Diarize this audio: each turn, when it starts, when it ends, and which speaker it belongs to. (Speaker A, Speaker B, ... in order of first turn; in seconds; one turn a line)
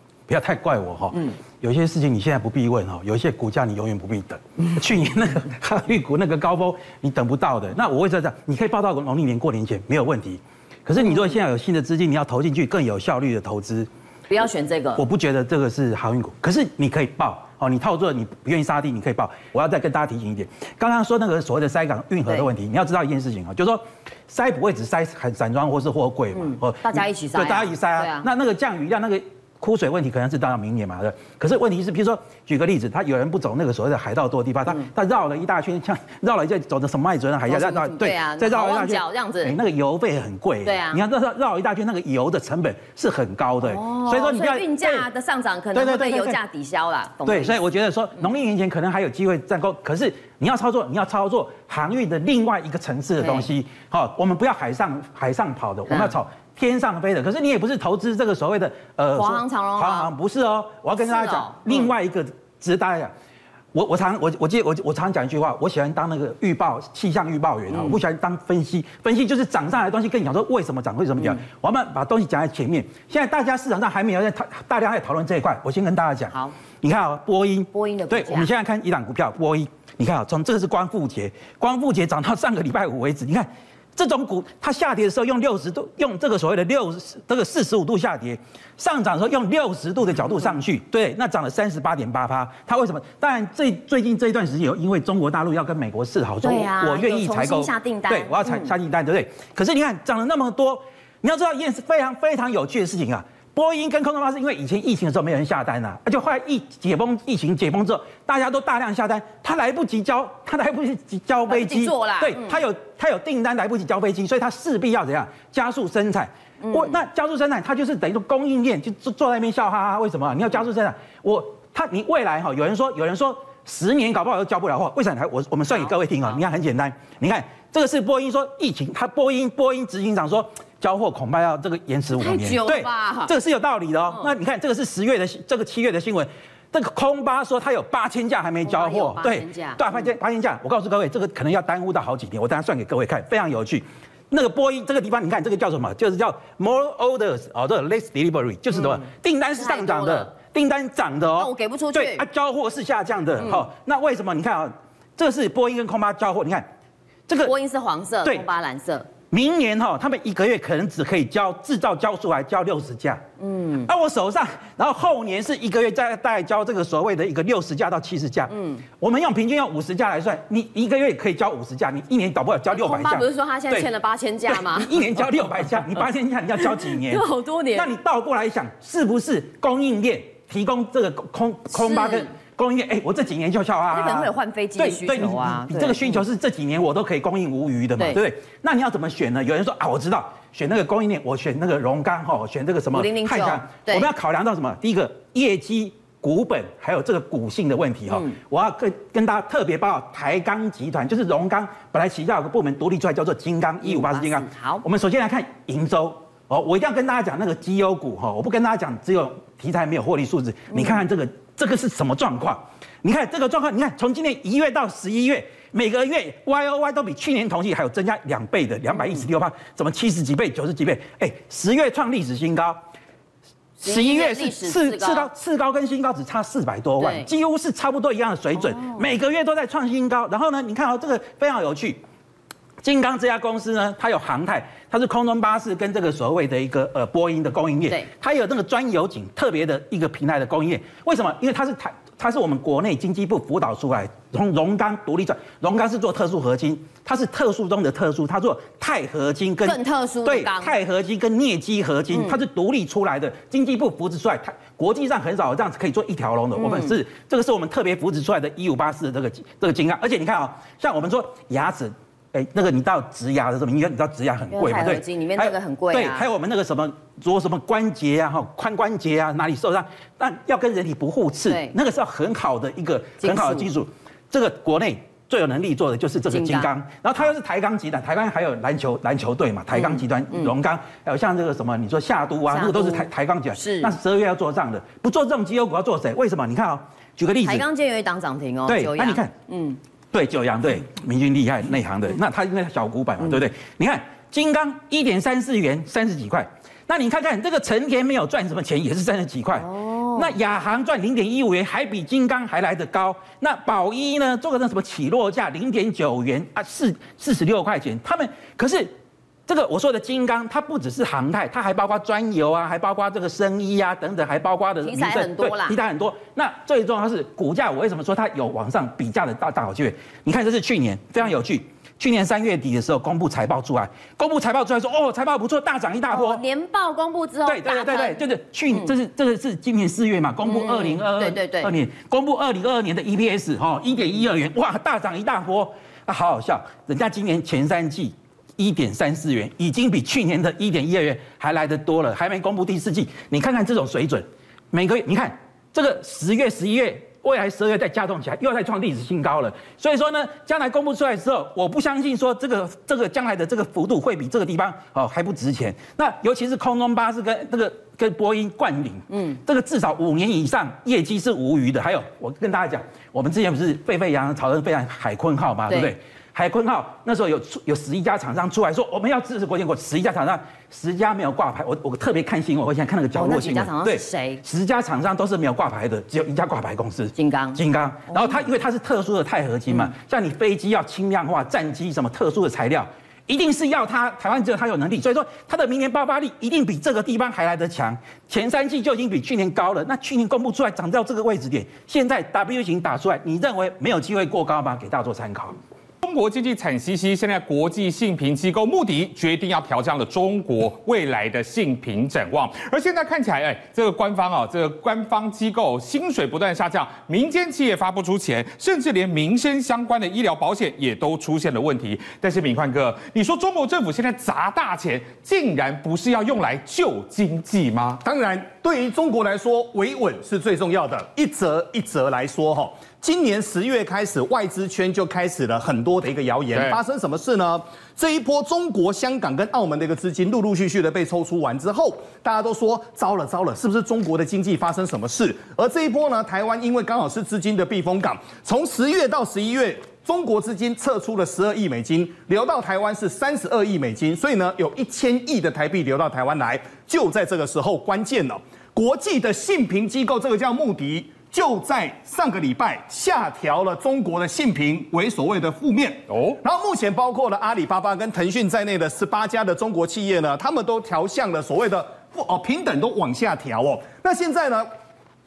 Speaker A: 0.3-13.9
Speaker B: 14.3-15.0
Speaker A: 15.0-45.0
Speaker B: 26.3-28.3
Speaker B: 37.5-39.5
Speaker B: 40.6-41.0
Speaker B: 43.6-47.5
Speaker A: 45.7-46.4
Speaker A: 47.2-63.1
Speaker B: 53.2-53.5
Speaker B: 55.9-56.1
Speaker B: 59.1-60.1
Speaker B: 61.0-61.9
Speaker A: 63.7-156.7
Speaker B: 67.7-68.0
Speaker B: 77.7-78.5
Speaker B: 96.4-98.7
Speaker B: 111.5-112.6
Speaker B: 116.6-116.9
Speaker B: 125.7-126.4
Speaker B: 132.2-133.3
Speaker B: 138.7-139.8
Speaker B: 148.7-149.1
Speaker B: 149.6-150.3
Speaker B: 151.4-152.2
Speaker B: 153.4-153.6
Speaker A: 157.3-157.5
Speaker B: 157.4-159.1
Speaker A: 159.3-163.2
Speaker B: 163.4-163.9
Speaker A: 163.8-173.9
Speaker B: 168.5-168.8
Speaker B: 172.7-175.0
Speaker A: 174.5-222.8
Speaker B: 176.8-177.9
Speaker B: 181.8-182.3
Speaker B: 183.9-186.2
Speaker B: 192.9-194.1
Speaker B: 203.8-204.8
Speaker B: 223.8-225.3
Speaker A: 223.8-232.0
Speaker B: 227.0-227.3
Speaker B: 228.6-229.0
Speaker A: 232.8-287.6
Speaker B: 249.6-250.7
Speaker B: 256.6-256.9
Speaker B: 264.5-266.2
Speaker B: 271.5-271.7
Speaker B: 273.2-273.7
Speaker B: 276.3-276.7
Speaker B: 279.7-280.5
Speaker B: 282.5-283.9
Speaker B: 287.4-289.8
Speaker A: 288.7-289.3
Speaker A: 290.1-308.9
Speaker B: 299.6-300.3
Speaker A: 309.5-326.4
Speaker B: 314.8-315.8
Speaker B: 326.1-328.2
Speaker A: 327.4-395.5
Speaker B: 330.4-331.7
Speaker B: 359.1-359.4
Speaker B: 365.7-365.9
Speaker B: 373.1-374.4
Speaker B: 377.1-377.6
Speaker B: 378.1-378.4
Speaker C: 396.0-418.0
Speaker D: 418.0-464.7
Speaker C: 426.5-426.8
Speaker C: 456.1-456.4